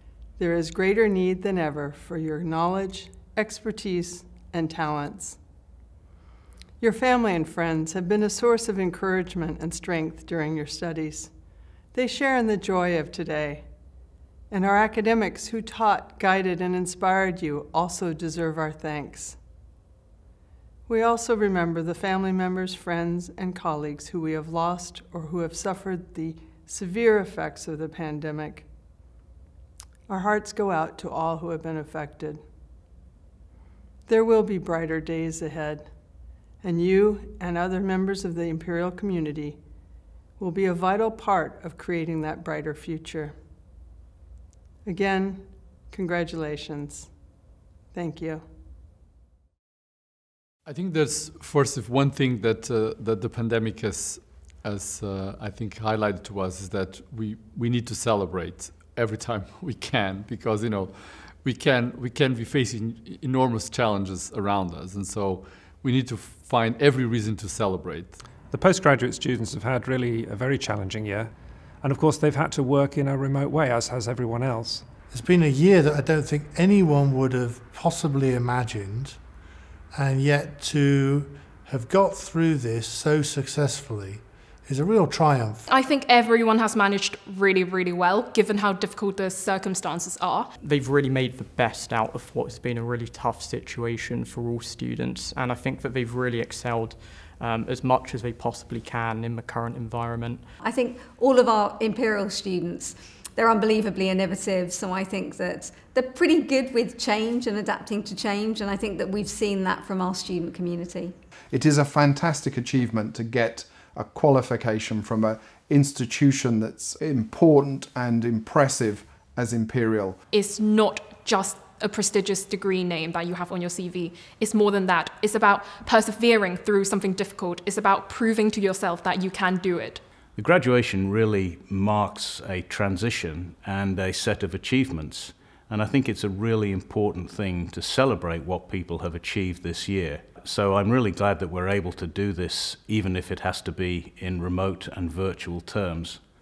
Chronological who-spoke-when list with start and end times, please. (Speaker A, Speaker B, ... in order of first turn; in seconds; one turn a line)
Speaker A: 0.4-5.4
Speaker A: 6.8-11.3
Speaker A: 11.9-13.7
Speaker A: 14.5-19.4
Speaker A: 20.9-28.7
Speaker A: 30.1-32.4
Speaker A: 34.1-35.9
Speaker A: 36.6-39.6
Speaker A: 40.4-43.3
Speaker A: 44.8-47.1
Speaker A: 47.9-48.4
Speaker B: 50.6-68.2
Speaker C: 68.5-74.9
Speaker D: 75.1-85.7
Speaker E: 85.6-90.5
Speaker F: 90.6-100.5
Speaker G: 100.6-111.2
Speaker H: 111.5-120.2
Speaker E: 120.3-130.0
Speaker I: 130.3-146.2